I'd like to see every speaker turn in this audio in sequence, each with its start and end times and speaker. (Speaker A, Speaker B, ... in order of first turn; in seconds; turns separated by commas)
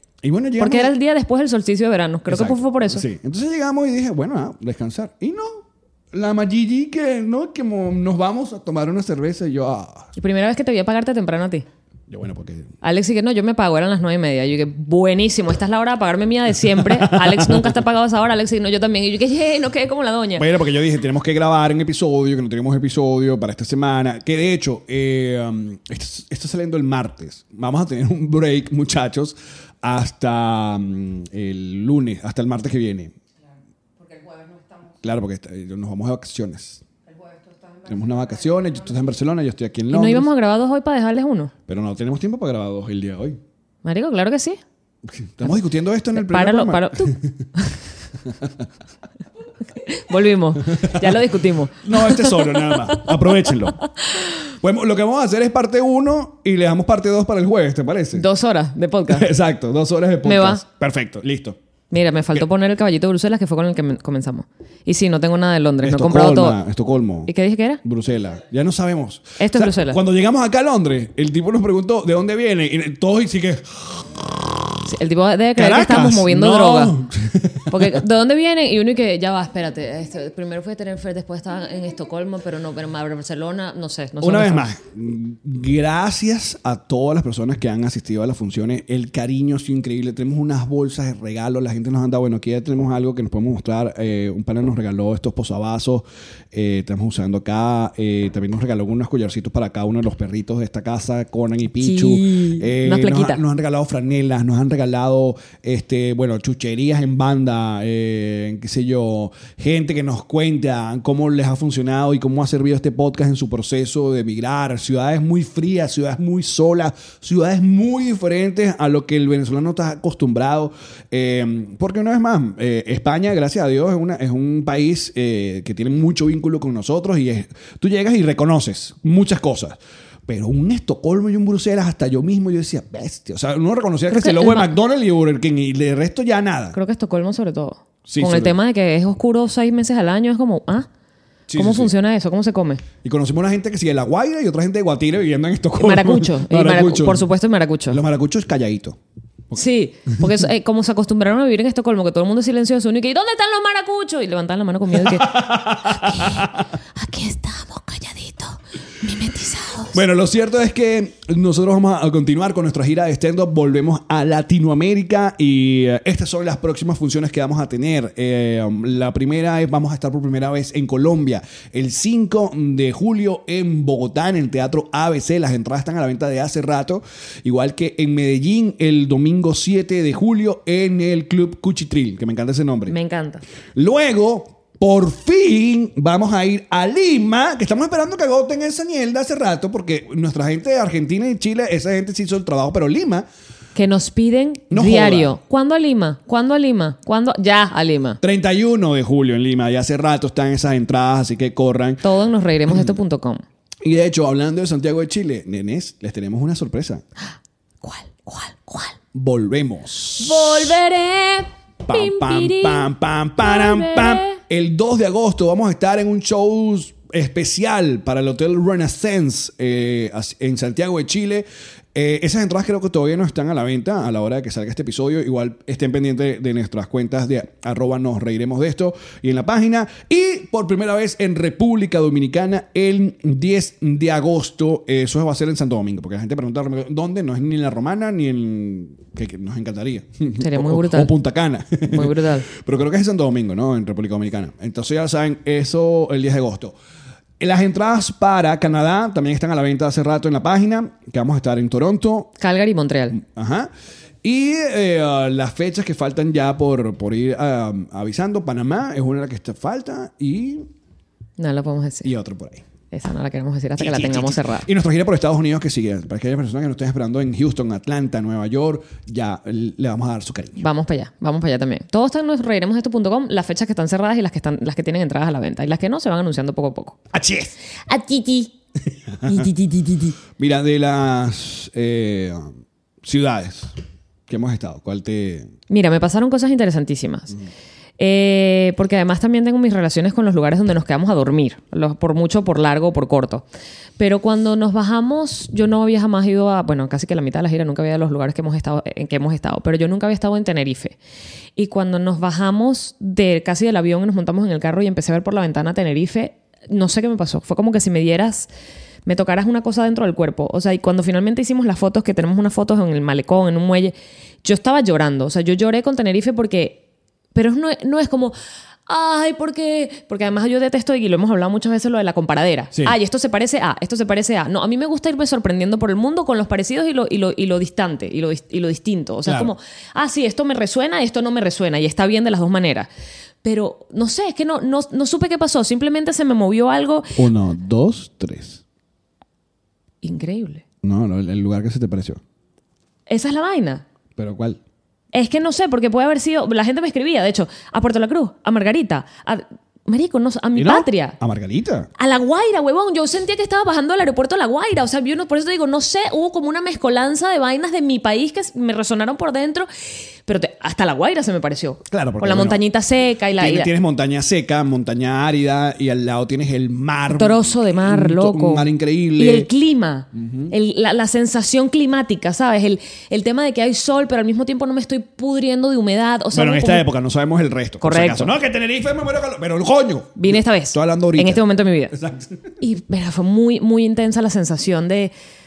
Speaker A: 0.2-0.9, Speaker B: 0.6-3.0, Speaker A: 2.3-10.1, Speaker B: 10.2-11.7, Speaker A: 12.1-12.7, Speaker B: 12.8-20.5, Speaker A: 16.6-17.8, Speaker A: 20.4-33.1, Speaker A: 34.9-36.8, Speaker A: 37.8-40.3, Speaker B: 39.9-41.5, Speaker A: 41.7-43.4, Speaker B: 43.8-44.6, Speaker A: 45.0-47.4, Speaker B: 46.1-47.8, Speaker A: 48.2-48.6, Speaker B: 49.8-53.1, Speaker A: 50.6-53.8, Speaker A: 54.5-58.2, Speaker B: 58.1-59.3, Speaker A: 59.1-61.6, Speaker B: 60.2-60.6, Speaker B: 61.9-66.6, Speaker A: 65.8-74.3, Speaker B: 67.3-67.8, Speaker B: 69.4-70.0, Speaker B: 74.8-76.9, Speaker A: 75.5-78.0, Speaker B: 77.7-84.7, Speaker A: 84.2-136.8, Speaker B: 101.8-103.4, Speaker B: 134.1-134.7, Speaker B: 136.7-140.9, Speaker A: 138.1-138.6, Speaker A: 141.5-141.9, Speaker B: 141.5-142.8, Speaker A: 143.0-147.3, Speaker B: 145.8-148.0, Speaker A: 147.9-149.0, Speaker B: 149.5-159.9, Speaker A: 154.9-156.7, Speaker A: 159.9-182.9, Speaker B: 182.9-183.4, Speaker A: 183.7-193.2, Speaker B: 193.7-198.2, Speaker A: 194.7-195.4, Speaker A: 198.2-202.0, Speaker B: 202.0-203.4, Speaker A: 202.7-203.0, Speaker A: 203.8-207.0, Speaker B: 207.8-209.0, Speaker A: 209.1-210.8, Speaker B: 210.2-212.9, Speaker A: 211.8-246.8, Speaker B: 213.4-214.4, Speaker B: 240.4-241.1, Speaker B: 241.9-242.4, Speaker A: 247.4-252.3, Speaker B: 252.4-253.2, Speaker A: 253.1-253.7, Speaker A: 254.2-260.7, Speaker B: 261.4-262.1, Speaker A: 262.0-262.6, Speaker B: 262.9-264.6, Speaker A: 263.8-270.6, Speaker B: 270.6-277.0, Speaker A: 277.1-277.6, Speaker B: 277.9-278.5, Speaker A: 278.9-279.5, Speaker B: 279.2-280.2, Speaker A: 280.4-282.5, Speaker A: 283.0-283.7, Speaker A: 284.3-285.5, Speaker B: 285.7-287.3, Speaker B: 288.0-293.4, Speaker B: 294.0-300.9, Speaker B: 301.6-308.5, Speaker B: 309.1-316.8, Speaker B: 317.3-318.3, Speaker B: 318.9-332.9, Speaker A: 322.7-323.0, Speaker A: 329.2-329.5, Speaker B: 333.4-337.2, Speaker A: 337.1-338.6, Speaker B: 340.0-340.6, Speaker A: 340.8-342.2, Speaker B: 343.1-343.8, Speaker A: 344.1-344.6, Speaker B: 345.1-351.2, Speaker A: 350.5-351.9, Speaker B: 352.0-359.7, Speaker B: 360.2-363.7, Speaker A: 361.9-362.6, Speaker A: 363.4-369.5, Speaker B: 367.1-376.8, Speaker A: 370.1-370.5, Speaker A: 376.3-382.4, Speaker B: 377.8-378.3, Speaker B: 380.1-381.9, Speaker B: 382.6-385.1